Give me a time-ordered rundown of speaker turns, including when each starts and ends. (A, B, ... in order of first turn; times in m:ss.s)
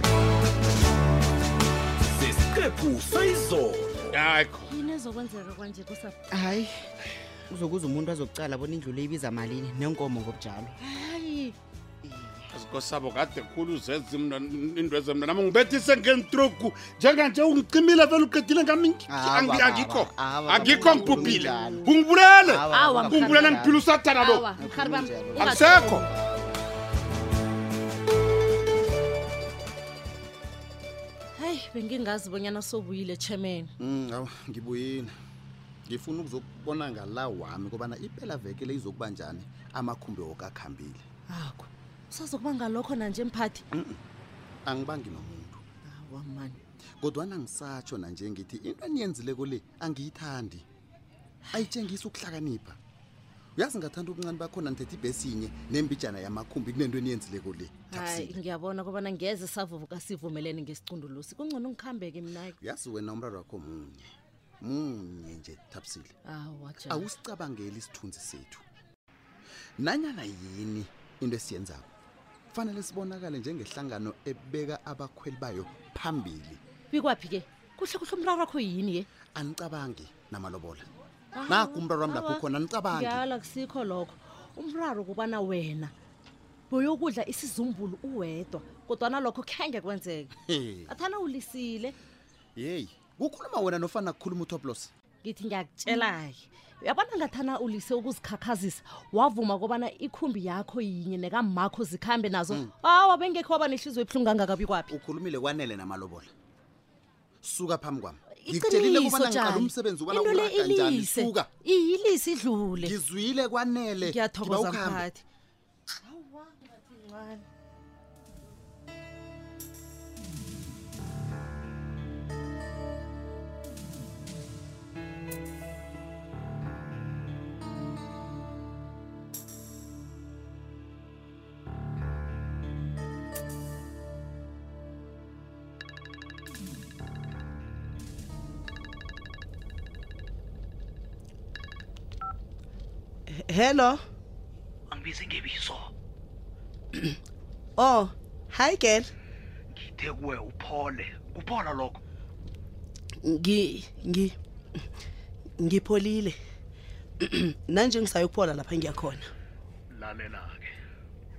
0:02.2-0:04.1 A
0:04.1-0:04.6 B
0:04.7-0:06.2 C
0:06.3-0:06.8 D
0:07.5-0:10.7 D
0:10.8-0:11.6 C
0:12.0-0:12.4 D
0:12.5-0:24.5 B
0:19.1-0:21.8 D
0:22.5-0:23.6 D
0:22.7-0:23.6 C
0:24.1-0:26.0 C
0:24.6-0:25.7 D
0:25.4-0:26.1 B
0:31.4-0:33.7 C
0:33.8-0:35.1 E
0:35.9-0:41.0 E
0:41.3-0:43.6 C
0:43.7-0:44.0 E
0:44.6-0:45.6 E
0:45.8-0:46.6 C
0:47.0-0:50.6 E
0:51.5-0:52.8 E
0:53.6-0:58.4 E
0:57.9-1:02.6 C
1:02.6-1:04.1 E
1:04.6-1:06.1 E
1:06.2-1:07.1 C
1:06.9-1:08.6 E
1:09.8-1:11.9 E
1:12.5-1:16.6 E
1:16.9-1:19.1 C
1:19.3-1:20.9 E
1:21.3-1:25.9 C
1:21.5-1:23.2 E
1:26.7-1:30.3 C
1:30.5-1:30.9 E
1:30.9-1:31.9 C
1:32.6-1:34.9 E
1:35.2-1:44.9 C
1:44.9-1:46.3 E
1:47.4-1:51.5 E
1:48.4-1:53.0 C
1:52.8-1:55.1 E
1:54.0-1:55.2 C
1:56.0-1:57.4 C
2:23.4-2:24.0 F
2:24.9-2:25.9 G
2:27.8-2:29.0 F
2:29.7-2:32.0 G
2:33.3-2:34.3 F
2:35.6-2:36.3 F
2:37.7-2:39.2 F
2:39.9-2:40.7 G